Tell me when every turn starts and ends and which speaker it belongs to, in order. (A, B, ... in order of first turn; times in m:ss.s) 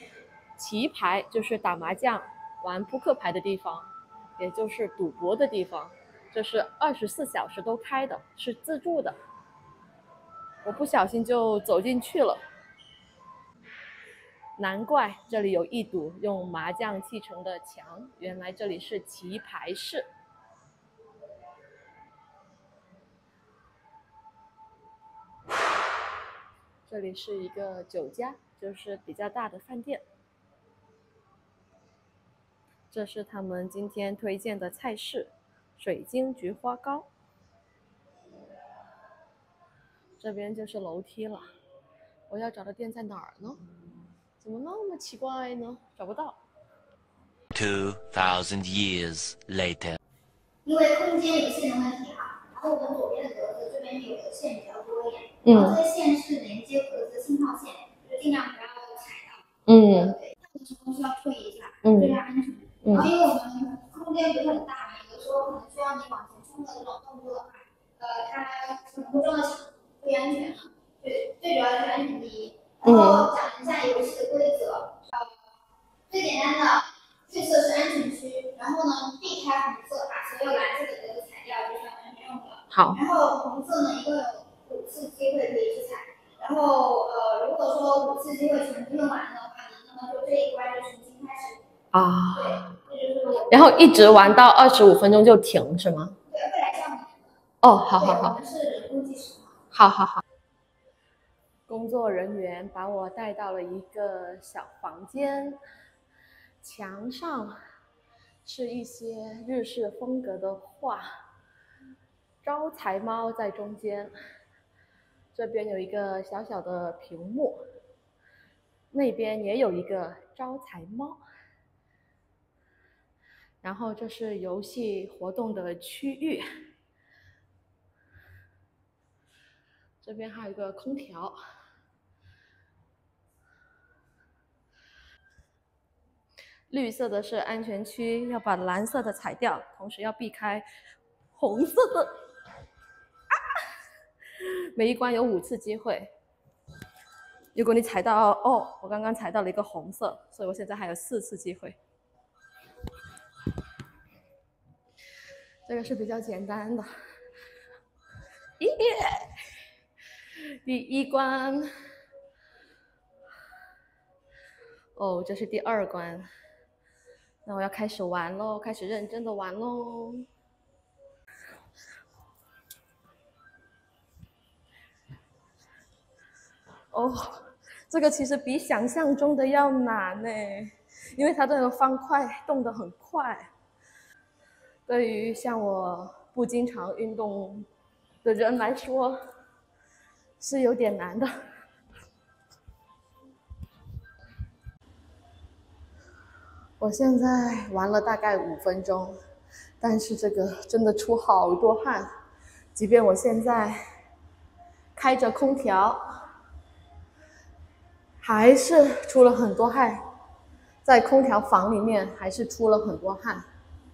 0:00.6-0:09.2 A
0:10.6-0:12.4 A
0:14.6-0:20.1 A
0:26.9-0:30.0 A
0:32.9-0:37.1 A
0:40.2-0:41.4 A
0:42.3-0:43.6 A
0:44.4-0:46.4 A
0:47.6-0:50.0 B
0:50.6-0:59.4 C
0:55.4-0:55.8 A
0:59.7-1:00.2 A
0:59.9-1:15.3 C
1:01.8-1:02.2 A
1:02.8-1:03.1 A
1:12.8-1:13.3 A
1:16.1-1:31.6 C
1:22.7-1:23.0 A
1:31.9-1:32.8 A
1:32.3-1:33.6 C
1:33.5-1:36.2 A
1:36.3-1:37.1 C
1:37.6-1:38.4 A
1:38.0-1:39.5 C
1:39.7-1:40.2 A
1:41.7-1:45.6 A
1:46.6-1:47.6 A
1:48.4-1:51.1 A
1:52.4-1:54.1 A
1:55.3-1:57.6 A
1:58.9-2:01.2 A
2:03.6-2:06.4 A
2:10.0-2:11.4 A
2:16.7-2:20.7 A
2:21.3-2:22.1 A
2:24.7-2:26.1 A
2:27.5-2:31.8 A
2:35.7-2:36.9 A
2:38.6-2:39.3 A
2:40.6-2:41.7 A
2:45.0-2:46.3 A
2:47.4-2:50.2 A
2:56.9-3:03.5 A
3:04.9-3:07.7 A
3:08.2-3:09.2 A
3:10.4-3:11.3 A
3:16.8-3:19.2 A
3:19.8-3:22.1 A
3:22.8-3:23.8 A
3:25.0-3:26.0 A
3:28.2-3:30.0 A
3:30.8-3:33.4 A